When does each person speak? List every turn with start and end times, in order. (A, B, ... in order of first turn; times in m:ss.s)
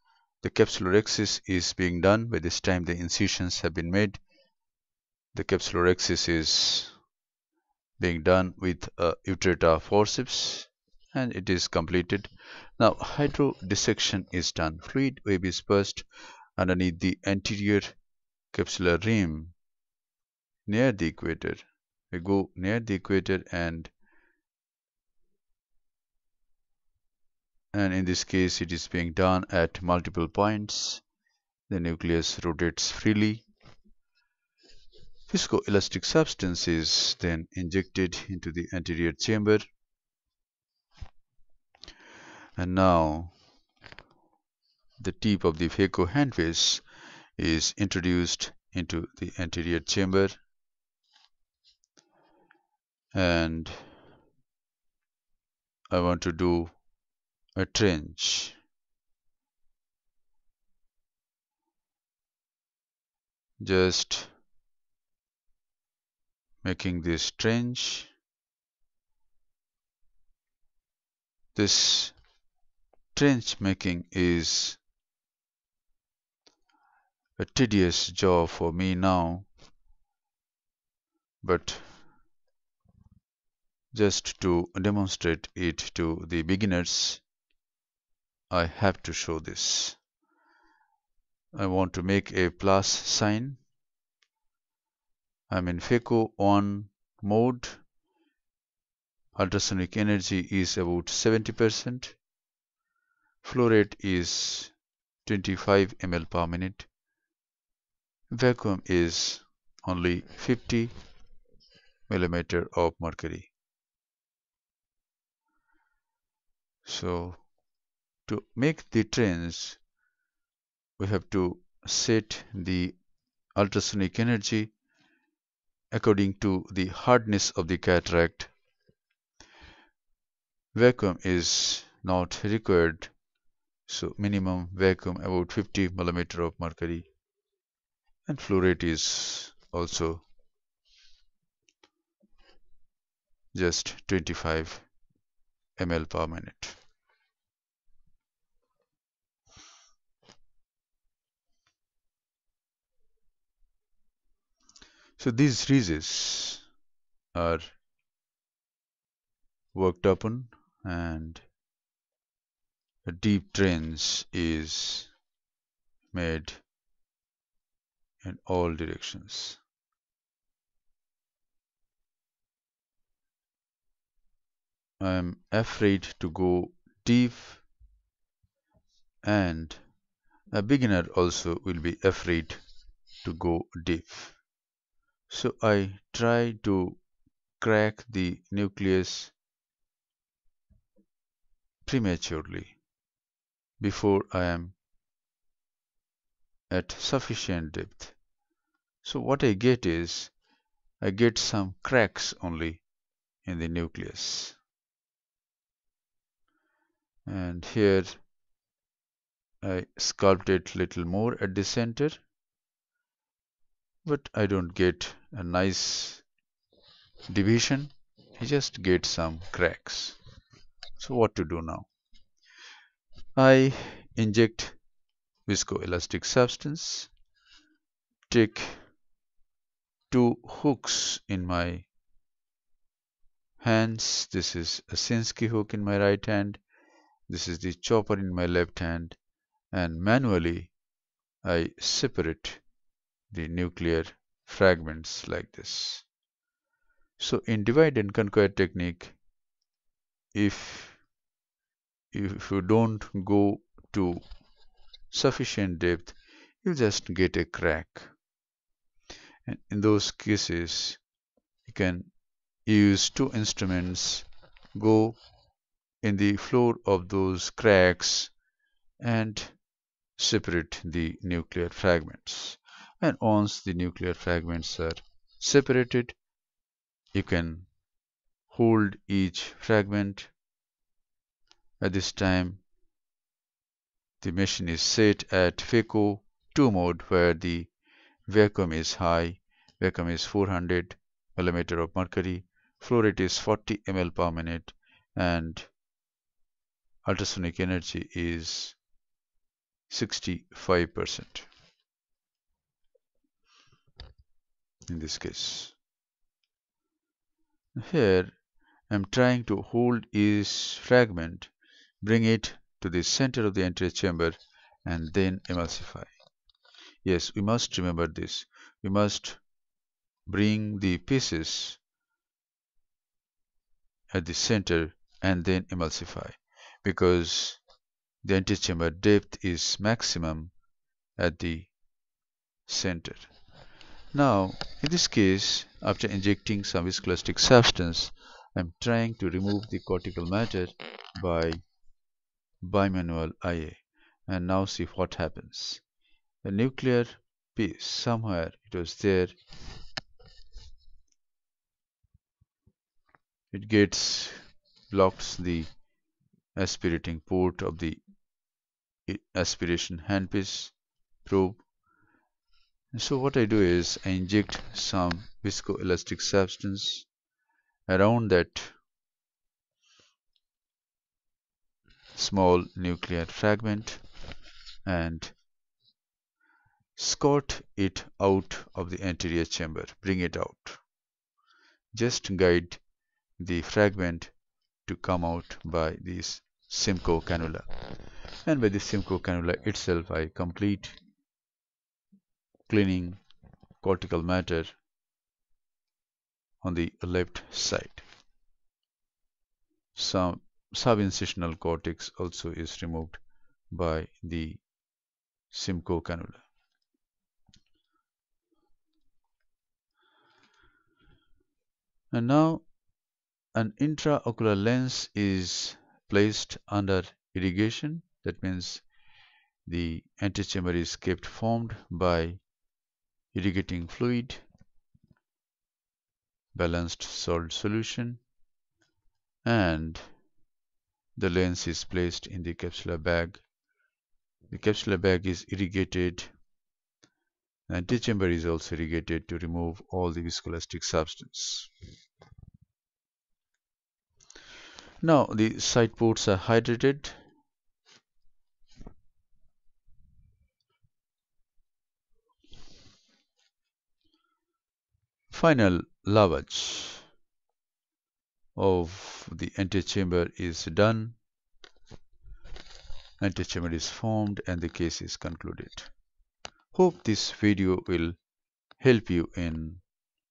0:00.4-0:04.2 A
0:05.3-0:07.0 A
0:08.0-0:18.0 A
0:18.5-0:19.6 A
0:20.7-0:23.9 A
0:27.7-0:31.0 A
0:31.7-0:33.5 A
0:35.3-0:39.6 A
0:42.6-0:43.4 A
0:45.0-0:46.8 A
0:47.4-0:50.4 A
0:53.1-0:53.9 A
0:55.9-0:56.8 A
0:57.6-0:58.6 A
1:03.6-1:04.3 A
1:06.6-1:08.1 A
1:11.6-1:12.2 A
1:13.1-1:14.8 A
1:17.4-1:19.5 A
1:21.4-1:22.0 A
1:23.9-1:27.2 A
1:28.5-1:30.0 A
1:31.5-1:33.6 A
1:35.5-1:37.8 A
1:39.4-1:42.2 A
1:43.4-1:46.9 A
1:48.3-1:51.0 A
1:52.1-1:53.5 A
1:56.8-1:57.5 A
1:58.3-1:59.8 A
2:01.0-2:03.0 A
2:03.6-2:04.7 A
2:05.9-2:08.5 A
2:10.7-2:13.1 A
2:13.9-2:17.1 A
2:18.3-2:20.2 A
2:23.5-2:24.9 A
2:25.8-2:26.8 A
2:35.2-2:36.7 A
2:37.3-2:37.8 A
2:39.7-2:41.5 A
2:43.0-2:45.1 A
2:46.1-2:46.6 A
2:48.2-2:49.6 A
2:55.0-2:57.6 A
2:59.2-2:59.8 A
3:00.5-3:02.6 A
3:03.2-3:04.4 A
3:05.3-3:07.0 A
3:07.6-3:09.4 A
3:11.8-3:12.8 A
3:13.8-3:14.8 A
3:16.7-3:18.2 A
3:19.0-3:20.3 A
3:21.0-3:22.8 A
3:23.4-3:24.6 A
3:27.3-3:28.2 A
3:29.6-3:32.2 A
3:34.0-3:36.3 A
3:37.3-3:40.2 A
3:41.0-3:41.9 A
3:43.4-3:44.8 A
3:45.5-3:47.1 A
3:48.3-3:48.9 A
3:50.1-3:51.9 A
3:53.6-3:56.6 A
3:57.3-3:59.2 A
3:59.7-4:00.7 A
4:01.4-4:02.6 A
4:03.3-4:06.1 A
4:07.2-4:09.2 A
4:10.3-4:11.0 A
4:12.1-4:14.2 A
4:15.1-4:18.1 A
4:19.5-4:21.0 A
4:21.7-4:22.1 A
4:22.6-4:25.2 A
4:26.0-4:28.3 A
4:29.0-4:29.6 A
4:30.2-4:36.2 A
4:37.1-4:37.7 A
4:38.5-4:40.3 A
4:41.8-4:42.6 A
4:44.2-4:47.7 A
4:48.3-4:55.7 A
4:57.0-4:58.8 A
4:59.9-5:01.5 A
5:04.9-5:05.8 A
5:07.8-5:08.4 A
5:08.9-5:16.1 A
5:17.0-5:19.4 A
5:20.3-5:21.8 A
5:24.1-5:27.6 A
5:28.2-5:30.5 A
5:31.2-5:31.7 A
5:32.7-5:33.3 A
5:34.1-5:41.6 A
5:42.6-5:45.8 A
5:46.4-5:49.4 A
5:53.5-5:55.8 A
5:56.6-5:58.0 A
5:59.1-6:01.6 A
6:02.9-6:07.1 A
6:07.9-6:08.8 A
6:12.2-6:14.0 A
6:14.8-6:15.4 A
6:17.0-6:20.8 A
6:21.9-6:22.8 A
6:23.4-6:24.3 A
6:24.9-6:27.7 A
6:28.4-6:31.0 A
6:32.7-6:33.2 A
6:33.8-6:34.8 A
6:36.6-6:38.0 A
6:40.0-6:44.6 A
6:45.5-6:46.5 A
6:52.1-6:52.7 A
6:53.6-6:58.9 A
6:59.7-7:02.4 A
7:03.3-7:04.4 A
7:06.5-7:08.2 A
7:09.4-7:10.2 A
7:11.2-7:13.4 A
7:14.5-7:16.3 A
7:17.7-7:21.7 A
7:25.0-7:27.2 A
7:35.3-7:37.0 A
7:38.6-7:41.2 A
7:43.2-7:45.9 A
7:46.7-7:48.2 A
7:48.8-7:49.8 A